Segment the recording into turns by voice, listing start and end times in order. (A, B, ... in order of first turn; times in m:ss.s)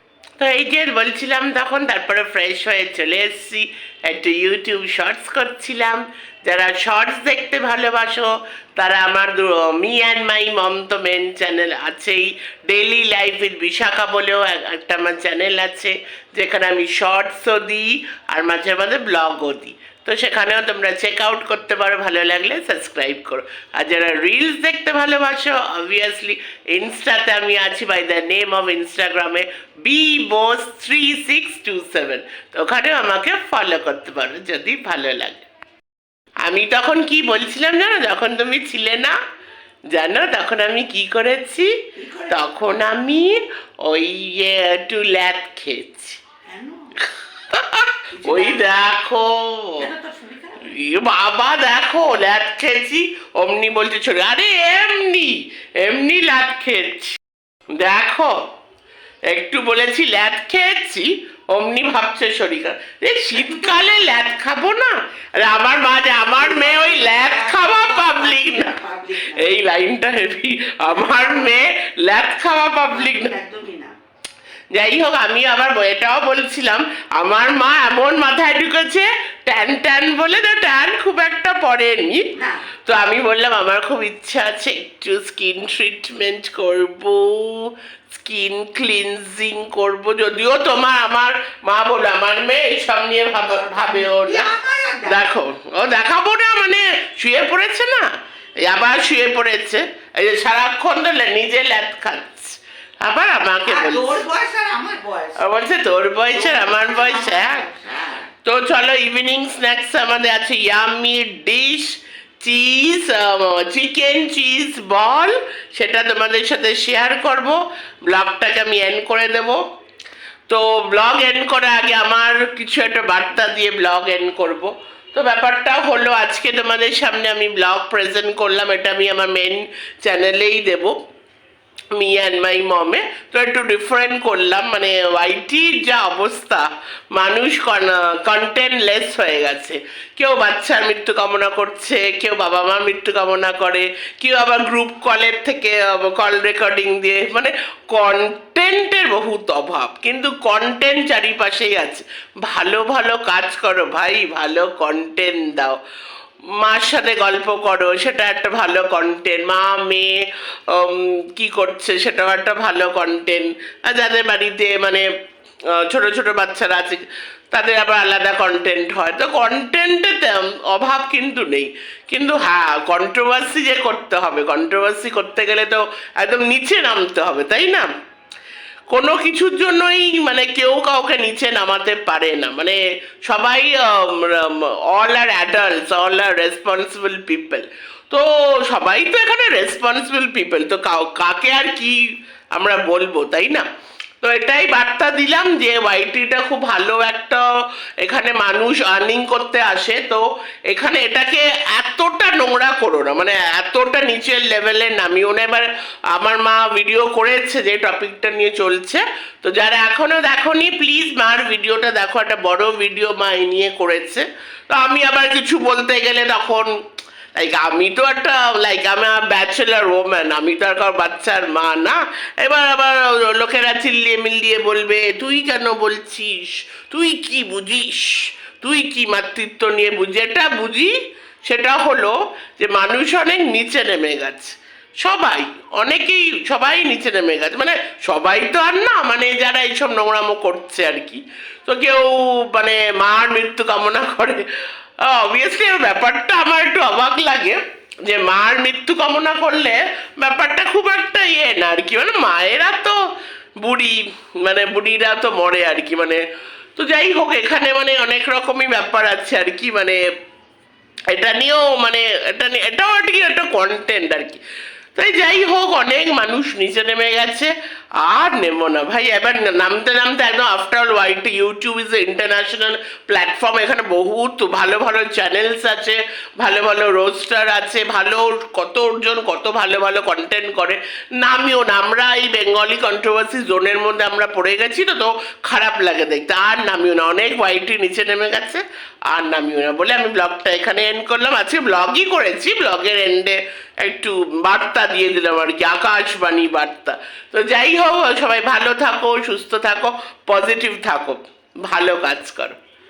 0:00.4-0:35.4 A
0:36.4-0:39.2 A
0:39.9-0:41.7 A
0:42.0-0:42.5 B
0:42.3-0:46.2 A
0:46.5-0:46.9 B
0:47.0-0:49.9 A
0:48.1-0:48.7 B
0:49.8-0:50.6 B
0:50.6-0:57.2 A
0:57.8-0:58.3 A
0:59.3-1:13.4 A
1:03.3-1:03.9 B
1:06.4-1:09.5 B
1:10.9-1:11.6 B
1:12.9-1:13.9 B
1:14.7-1:22.2 A
1:22.4-1:22.6 B
1:22.9-1:34.5 A
1:34.0-1:35.2 B
1:35.0-1:38.1 A
1:38.6-1:44.2 A
1:43.6-1:45.4 B
1:45.4-1:47.7 A
1:46.3-1:48.3 B
1:48.4-1:59.6 A
2:00.5-2:11.0 A
2:11.9-2:35.8 A
2:36.6-2:45.0 A
2:45.8-2:57.9 A
2:58.9-3:12.0 A
3:12.6-3:13.7 A
3:14.2-3:17.4 A
3:18.0-3:36.7 A
3:37.4-3:50.9 A
3:51.4-3:54.5 A
3:55.0-4:04.4 A
4:05.0-4:13.0 A
4:13.6-4:16.2 A
4:16.8-4:20.0 A
4:21.1-4:24.4 A
4:25.0-4:27.5 A
4:28.0-5:02.6 A